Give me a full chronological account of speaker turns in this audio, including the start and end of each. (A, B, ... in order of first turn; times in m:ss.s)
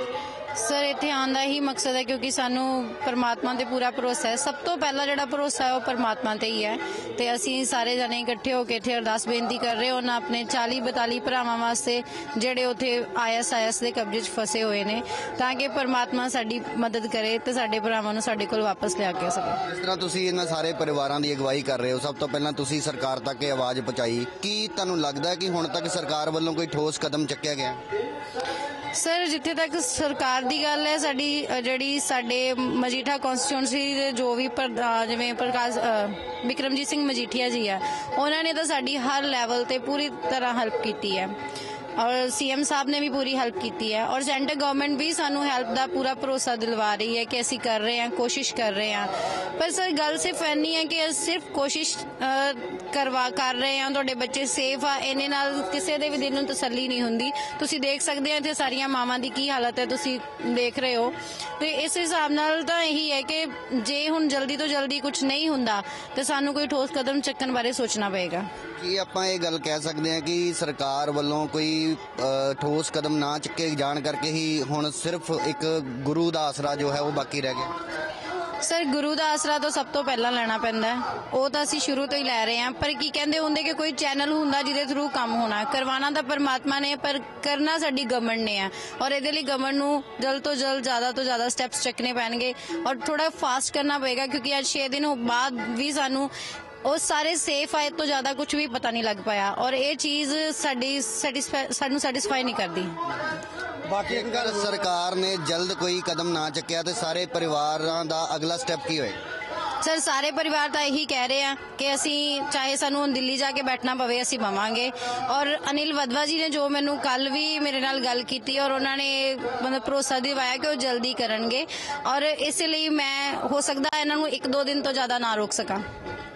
0:00.6-0:19.6 A
0:19.6-0:27.8 B
0:28.9-0:41.4 A
0:42.0-1:08.5 A
1:08.8-1:17.7 B
1:18.6-1:36.3 A
1:36.8-1:43.0 A
1:43.9-1:49.2 B
1:49.8-2:05.8 A